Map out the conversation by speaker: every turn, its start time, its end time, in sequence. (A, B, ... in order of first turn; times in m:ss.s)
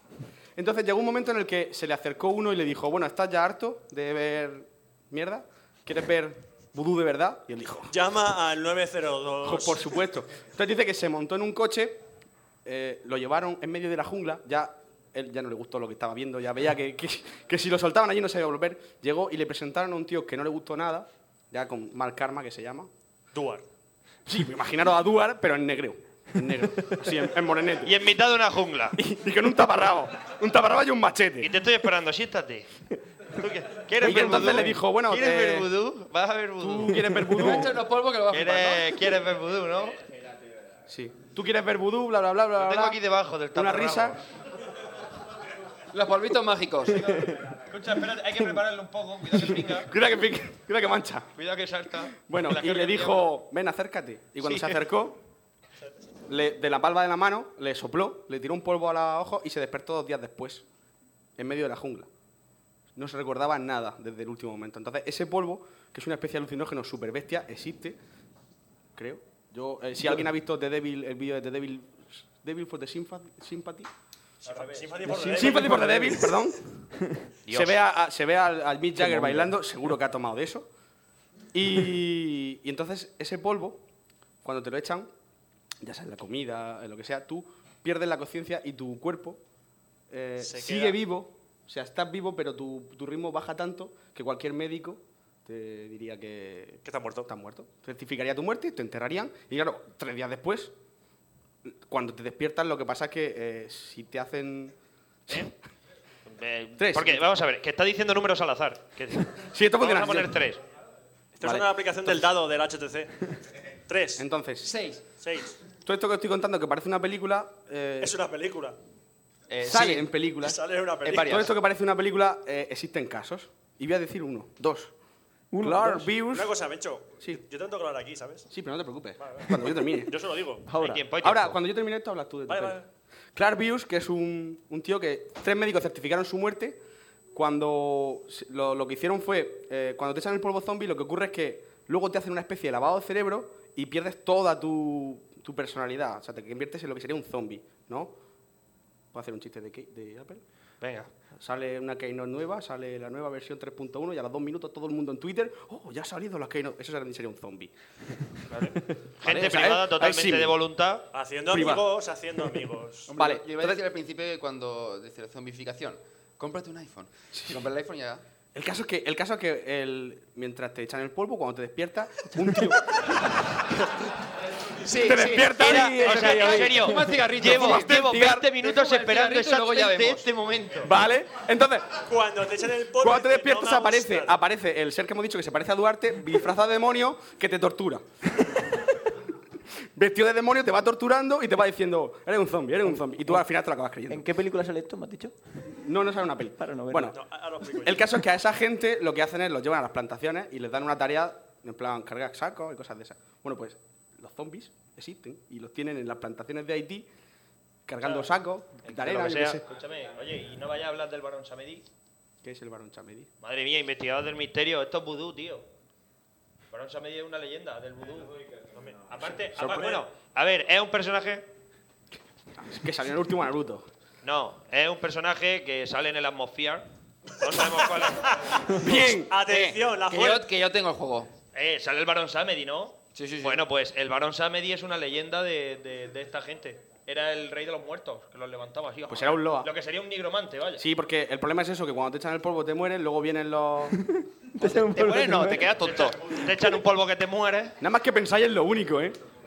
0:00.6-0:07.9 A
0:07.9-0:09.8 B
0:09.4-0:12.0 A
0:12.6-0:22.9 A
0:23.3-0:23.7 B
0:24.2-0:27.9 A
0:27.8-0:29.0 C
0:28.9-0:31.5 A
0:31.4-0:32.7 C
0:33.3-0:37.5 C
0:34.0-0:35.7 A
0:36.6-0:37.8 A
0:37.3-0:39.0 D
0:38.3-0:40.0 C
0:40.9-0:43.0 A
0:42.6-0:44.2 C
0:43.5-0:44.2 A
0:45.9-0:47.2 D
0:47.2-0:49.9 C
0:49.5-0:51.3 A
0:51.4-0:53.3 C
0:52.2-0:55.2 A
0:54.4-0:54.8 C
0:56.3-1:00.6 A
1:01.4-1:02.1 A
1:03.0-1:08.0 A
1:09.0-1:13.9 A
1:14.4-1:15.8 B
1:14.4-1:15.0 C
1:15.0-1:16.2 E
1:15.3-1:16.6 A
1:17.5-1:17.8 C
1:17.5-1:20.7 A
1:19.0-1:19.5 E
1:21.5-1:23.8 A
1:24.4-1:25.1 A
1:25.8-1:29.4 A
1:30.1-1:40.7 A
1:30.4-1:31.0 B
1:36.8-1:37.3 B
1:41.6-1:44.7 A
1:46.3-1:50.6 C
1:46.8-1:47.3 A
1:49.5-1:50.4 A
1:51.3-1:53.4 B
1:51.4-1:51.7 A
1:53.9-1:54.2 B
1:54.2-1:54.7 A
1:54.6-1:55.0 D
1:55.2-1:55.6 B
1:55.8-1:58.1 A
1:58.0-1:58.8 B
1:59.5-2:00.1 D
1:59.6-2:04.9 A
2:00.4-2:01.5 B
2:01.0-2:01.5 D
2:05.5-2:06.1 E
2:05.6-2:06.5 A
2:06.3-2:08.5 B
2:08.5-2:10.2 A
2:09.2-2:10.7 B
2:10.7-2:11.0 E
2:10.8-2:11.6 C
2:11.2-2:12.8 A
2:12.5-2:12.8 B
2:13.3-2:16.8 A
2:17.3-2:28.1 A
2:29.1-2:30.4 A
2:30.8-2:31.1 C
2:31.4-2:37.7 A
2:38.5-2:41.1 C
2:39.2-2:40.6 A
2:41.1-2:43.1 B
2:41.5-2:41.9 A
2:43.1-2:48.2 D
2:43.1-2:43.8 A
2:47.3-2:47.6 A
2:48.5-2:53.3 A
2:54.8-3:00.9 D
2:54.9-2:56.5 A
2:55.4-3:00.8 C
2:55.6-2:57.0 E
2:57.4-2:58.5 A
3:00.8-3:02.0 A
3:02.1-3:04.3 B
3:03.0-3:08.0 A
3:09.9-3:14.2 A
3:14.1-3:15.3 E
3:15.8-3:17.2 A
3:16.6-3:17.1 E
3:17.1-3:18.1 B
3:17.8-3:27.1 A
3:27.9-3:29.6 A
3:28.0-3:28.3 C
3:28.8-3:31.8 C
3:32.4-3:33.3 A
3:33.4-3:35.6 C
3:36.7-3:38.4 C
3:38.7-3:40.0 B
3:39.1-3:41.5 C
3:39.6-3:39.9 A
3:42.6-3:43.8 A
3:44.2-3:46.8 C
3:47.4-3:48.6 C
3:48.2-3:50.5 B
3:48.8-3:49.4 A
3:49.4-3:51.3 D
3:51.5-4:00.8 C
3:53.1-3:53.6 D
3:59.1-3:59.7 A
4:00.8-4:04.0 A
4:04.0-4:05.7 E
4:04.6-4:06.1 D
4:05.2-4:07.7 C
4:07.8-4:09.2 A